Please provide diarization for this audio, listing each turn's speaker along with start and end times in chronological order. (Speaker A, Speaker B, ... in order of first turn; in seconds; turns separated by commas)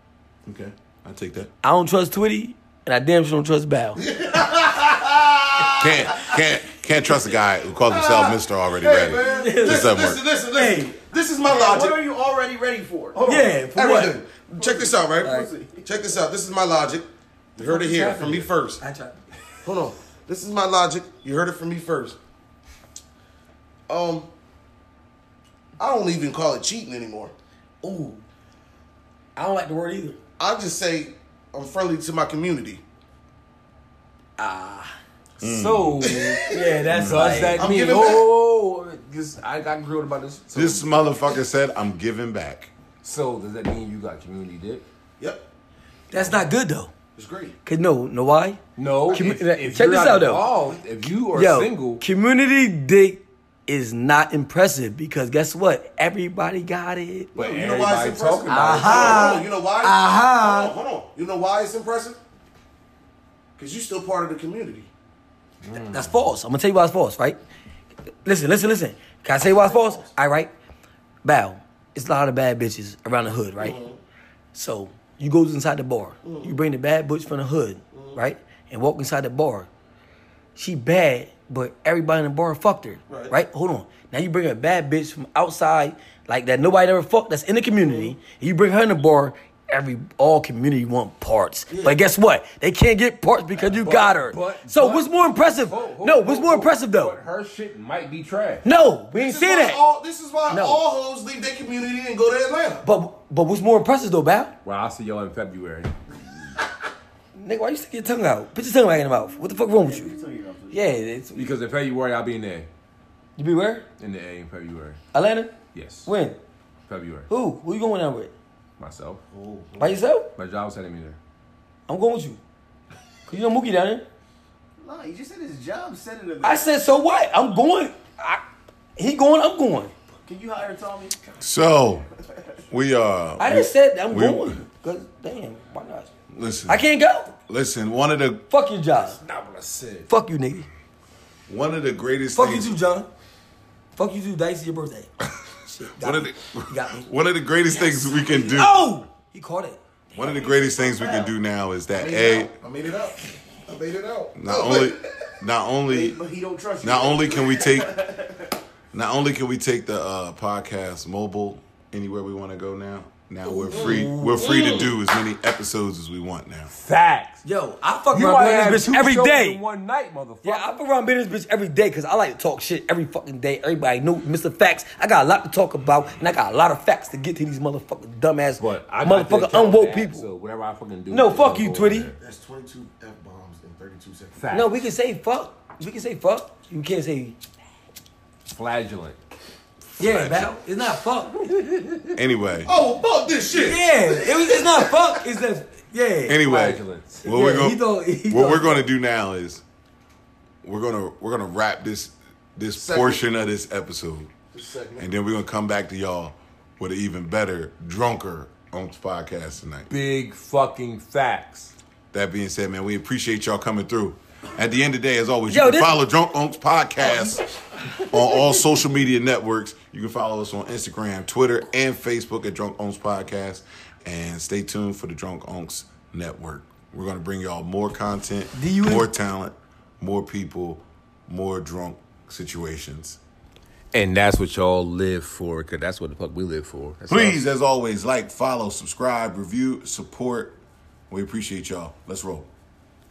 Speaker A: 0.5-1.5, Speaker B: 1.6-4.0, Speaker C: 4.0-6.2, Speaker A: 5.8-10.2, Speaker C: 7.0-12.1, Speaker B: 9.2-10.0, Speaker B: 10.5-11.0, Speaker D: 11.4-13.5, Speaker B: 13.2-14.2, Speaker C: 13.7-18.8, Speaker D: 14.6-15.8, Speaker B: 15.2-15.5, Speaker E: 17.6-18.5, Speaker B: 18.8-19.1, Speaker C: 19.6-22.2, Speaker C: 23.9-24.3, Speaker C: 25.8-27.3, Speaker B: 27.8-28.2, Speaker B: 29.4-30.2, Speaker C: 30.4-32.8, Speaker B: 34.4-35.0, Speaker E: 35.4-41.0, Speaker A: 35.4-36.2, Speaker C: 36.0-36.8, Speaker B: 36.5-37.7, Speaker A: 36.9-37.4, Speaker C: 37.5-38.3, Speaker A: 40.5-42.7, Speaker E: 43.0-44.9, Speaker C: 45.2-45.5, Speaker B: 46.1-46.9, Speaker C: 47.1-47.6, Speaker B: 47.6-50.5, Speaker E: 48.8-52.0, Speaker B: 51.3-57.3, Speaker E: 57.3-59.4, Speaker C: 57.3-62.2, Speaker B: 58.5-60.7, Speaker C: 63.6-64.9, Speaker E: 65.6-66.1, Speaker B: 65.8-67.4, Speaker B: 68.2-70.5, Speaker C: 69.4-70.1, Speaker B: 71.2-73.8, Speaker C: 73.6-74.0, Speaker B: 74.5-79.7, Speaker C: 76.2-76.6, Speaker C: 77.9-78.2, Speaker B: 80.5-97.2, Speaker C: 83.1-83.3, Speaker C: 87.8-88.1, Speaker C: 91.7-92.0, Speaker E: 93.6-98.6, Speaker B: 98.6-99.8, Speaker C: 99.2-102.8, Speaker B: 100.5-100.8, Speaker B: 102.8-104.5, Speaker E: 104.6-106.0, Speaker B: 107.3-110.2, Speaker D: 109.6-110.8, Speaker B: 110.7-111.5, Speaker E: 111.3-112.7, Speaker B: 113.4-113.8, Speaker E: 114.0-115.0, Speaker B: 115.1-115.5, Speaker E: 115.7-116.1, Speaker B: 116.0-116.4, Speaker E: 116.9-117.3, Speaker B: 117.3-118.3, Speaker E: 118.8-119.2, Speaker C: 119.3-120.0, Speaker B: 119.8-120.3, Speaker E: 120.3-121.2, Speaker B: 121.9-122.4, Speaker B: 123.3-124.0, Speaker D: 124.8-126.7, Speaker B: 126.4-128.4, Speaker B: 129.0-129.9, Speaker D: 130.2-131.2, Speaker A: 131.4-132.1, Speaker A: 132.7-134.6, Speaker B: 133.4-136.1, Speaker A: 136.3-136.9, Speaker B: 136.7-137.3, Speaker A: 137.5-138.4, Speaker B: 138.5-139.2, Speaker E: 138.9-140.1, Speaker B: 140.1-140.7, Speaker A: 141.5-142.8, Speaker B: 142.3-143.1, Speaker B: 143.9-145.1, Speaker B: 145.6-147.1, Speaker A: 146.0-148.8, Speaker B: 147.7-149.8, Speaker A: 150.1-152.5, Speaker D: 150.4-151.1, Speaker C: 151.9-155.2, Speaker A: 154.3-156.2, Speaker D: 155.9-158.5, Speaker A: 156.8-158.0, Speaker A: 158.9-166.7, Speaker B: 163.4-164.9, Speaker C: 163.7-164.9, Speaker E: 166.7-167.4, Speaker B: 167.4-169.6, Speaker E: 168.1-170.8, Speaker B: 170.4-180.3, Speaker E: 178.6-182.2, Speaker B: 181.1-182.1, Speaker C: 182.2-184.4, Speaker E: 184.3-184.7, Speaker B: 184.5-187.4, Speaker E: 188.5-189.2, Speaker A: 189.8-190.5, Speaker B: 190.0-191.4, Speaker E: 191.3-192.2, Speaker A: 192.1-192.7, Speaker C: 192.6-195.2, Speaker B: 193.5-196.6, Speaker A: 196.3-199.6, Speaker E: 196.4-197.2, Speaker B: 197.2-198.8, Speaker A: 200.6-204.3, Speaker C: 202.7-203.2, Speaker C: 204.5-205.1, Speaker A: 205.0-209.9, Speaker E: 209.9-211.7, Speaker A: 212.1-233.2, Speaker B: 215.5-215.9, Speaker B: 217.0-217.4, Speaker B: 228.5-229.1, Speaker E: 233.9-237.4, Speaker A: 237.1-240.6, Speaker A: 241.1-242.5